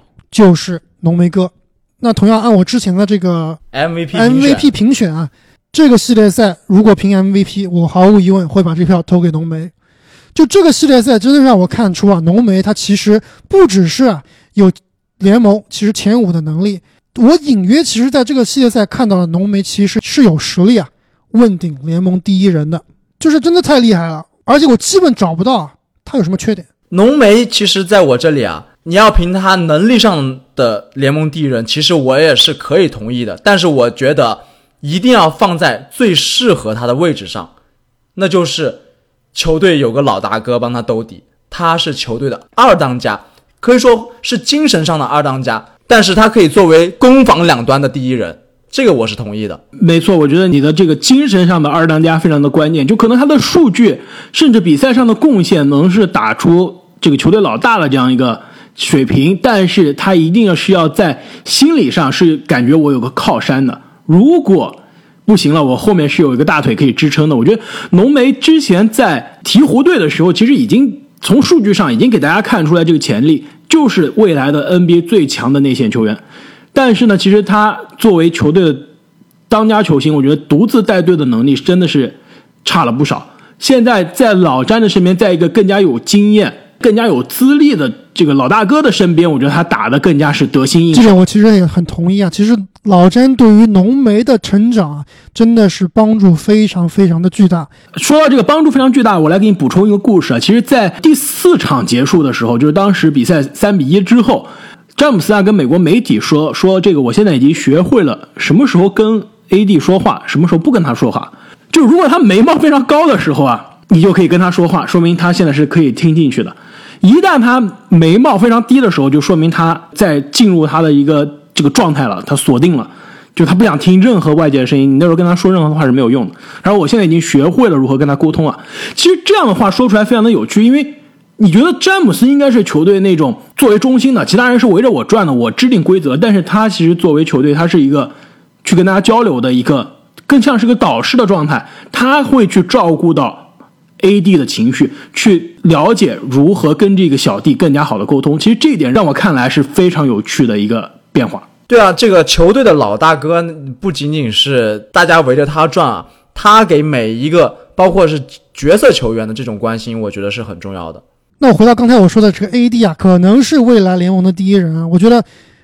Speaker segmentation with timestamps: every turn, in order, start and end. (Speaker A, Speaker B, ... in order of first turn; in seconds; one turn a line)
Speaker A: 0.3-3.6
Speaker B: 3.7-4.7
Speaker A: 4.1-9.7
Speaker A: 10.3-26.7
Speaker B: 26.9-37.5
Speaker B: 38.1-38.8
Speaker B: 39.3-49.6
Speaker C: 49.8-76.2
Speaker C: 76.7-78.9
Speaker C: 79.5-91.2
Speaker A: 90.9-97.7
Speaker C: 97.9-138.1
Speaker C: 138.6-143.5
Speaker C: 144.0-151.4
Speaker B: 151.7-161.0
Speaker A: 161.4-165.2